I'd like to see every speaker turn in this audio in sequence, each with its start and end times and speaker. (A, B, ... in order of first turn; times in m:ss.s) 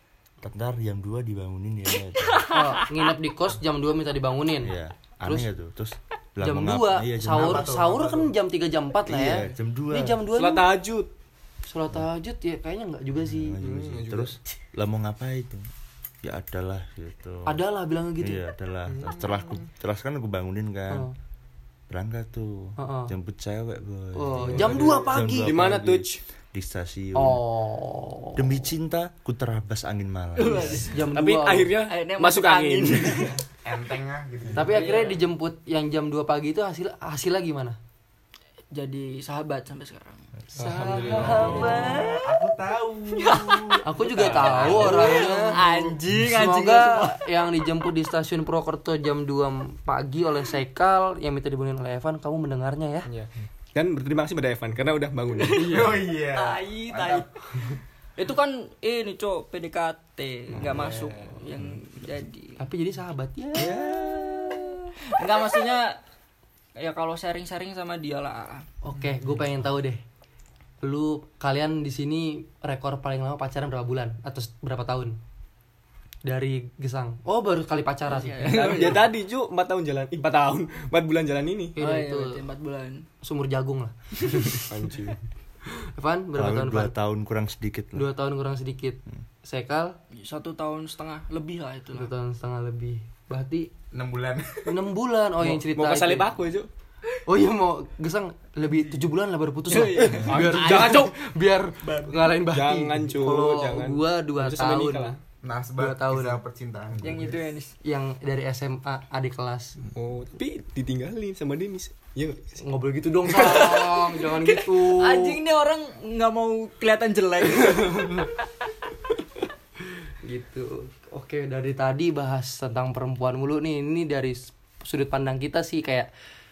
0:00.4-0:02.5 A
0:02.2-0:03.0 B
0:02.5-0:05.5 C
0:04.6-0:07.7 A
0:06.4-0:10.7 C
0:07.3-0:08.3 D
0:09.0-0:10.2 A
0:10.3-0:11.1 E
0:11.7-0:13.6 C
0:13.2-0:15.6 A
0:13.6-0:14.4 E
0:16.2-0:17.6 A
0:17.4-0:18.5 C
0:18.2-0:21.1 A
0:18.9-0:19.7 E
0:20.9-0:21.1 C
0:21.9-0:27.4 A
0:22.8-0:23.1 C
0:24.1-0:25.6 C
0:24.4-0:26.2 E
0:27.1-0:28.7 C
0:28.4-0:31.0 A
0:30.4-0:30.9 B
0:30.5-0:31.7 C
0:31.0-0:33.4 E
0:31.9-0:33.4 B
0:33.6-0:34.8 D
0:34.5-0:37.8 C
0:34.7-0:35.2 B
0:38.7-0:42.5 B
0:40.5-0:41.9 E
0:40.6-0:41.7 C
0:41.4-0:43.8 D
0:43.1-0:47.2 B
0:43.8-0:53.1 C
0:44.3-0:45.5 E
0:53.1-0:55.9 E
0:55.3-0:57.3 B
0:55.5-0:57.3 D
0:58.2-1:02.6 B
1:00.6-1:01.4 E
1:02.6-1:03.9 C
1:03.6-1:06.0 B
1:03.6-1:04.0 E
1:06.8-1:08.7 B
1:08.8-1:10.0 C
1:10.8-1:15.2 C
1:16.2-1:18.9 C
1:18.1-1:19.0 B
1:18.5-1:21.8 E
1:21.8-1:22.4 C
1:21.8-1:23.1 B
1:23.2-1:24.7 C
1:24.6-1:25.2 E
1:25.8-1:26.9 C
1:26.4-1:28.1 A
1:27.9-1:30.0 C
1:30.1-1:32.1 B
1:31.9-1:33.7 C
1:33.9-1:34.8 D
1:34.7-1:36.3 C
1:35.4-1:36.7 E
1:37.2-1:45.2 C
1:39.7-1:41.0 B
1:39.9-1:41.1 E
1:42.1-1:45.2 E
1:45.4-1:47.2 D
1:45.8-1:46.4 C
1:47.0-1:47.7 B
1:47.8-1:49.8 C
1:49.8-1:52.6 E
1:52.6-1:55.4 C
1:53.3-1:53.7 E
1:53.3-1:58.4 B
1:57.6-1:58.3 C
2:00.2-2:06.1 C